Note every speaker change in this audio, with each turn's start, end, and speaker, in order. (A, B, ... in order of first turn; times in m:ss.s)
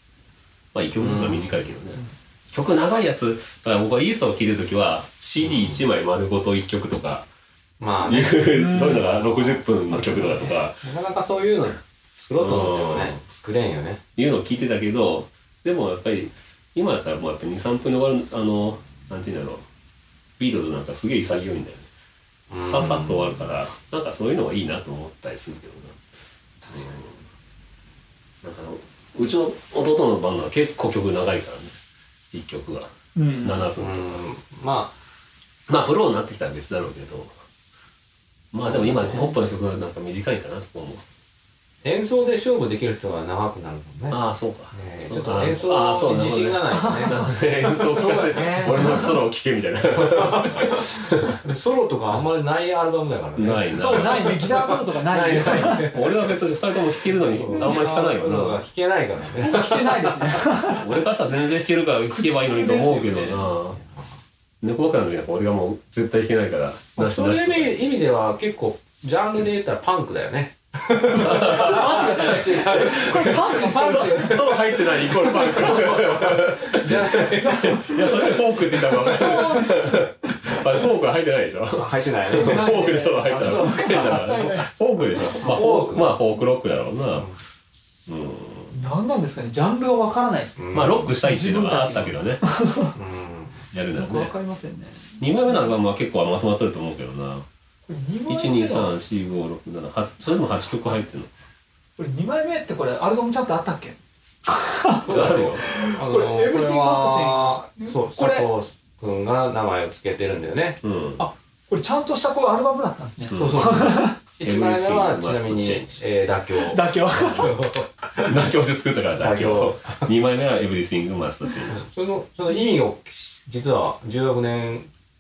0:00.7-0:07.3 A
0:01.0-0:01.5 B
0:05.4-0:05.8 B
0:07.8-0:08.6 B
0:08.0-0:10.8 A
0:08.5-0:09.1 C
0:09.1-0:14.0 B
0:12.4-0:13.2 A
0:14.2-0:19.6 A
0:20.4-0:21.9 A
0:22.5-0:23.3 B
0:22.6-0:26.0 A
0:26.6-0:27.0 C
0:26.7-0:27.2 A
0:28.4-0:31.8 A
0:32.3-0:34.2 A
0:33.2-0:33.6 C
0:33.8-0:35.0 B
0:35.7-0:37.3 A
0:38.5-0:41.0 A
0:38.7-0:39.3 B
0:41.8-0:44.2 B
0:44.1-0:51.4 A
0:44.7-0:47.2 B
0:46.7-0:49.2 C
0:48.0-0:48.8 B
0:50.0-0:50.8 B
0:51.4-0:56.1 B
0:53.4-0:54.8 A
0:53.7-0:55.9 C
0:55.3-0:58.6 A
0:57.1-1:00.4 B
0:57.5-0:57.9 C
0:59.3-1:00.9 C
1:00.7-1:03.8 A
1:02.1-1:03.4 C
1:03.3-1:04.1 B
1:04.6-1:07.9 A
1:07.0-1:19.5 B
1:11.1-1:14.6 C
1:11.2-1:27.3 A
1:15.4-1:15.9 C
1:17.4-1:20.0 C
1:21.7-1:24.1 B
1:22.4-1:25.5 C
1:25.4-1:26.2 B
1:28.1-1:28.8 A
1:28.7-1:33.0 C
1:30.6-1:31.1 B
1:30.7-1:32.4 A
1:33.0-1:33.7 B
1:33.7-1:34.3 A
1:33.9-1:35.5 C
1:35.2-1:37.4 A
1:37.9-1:39.0 C
1:38.3-1:41.3 A
1:42.0-1:48.5 C
1:45.1-1:50.8 B
1:45.1-1:45.6 A
1:50.8-1:51.3 A
1:51.2-1:54.2 C
1:53.3-1:56.0 A
1:53.3-1:58.5 B
1:56.6-1:57.7 C
1:58.2-2:01.8 A
1:59.2-2:00.1 B
2:01.7-2:04.9 B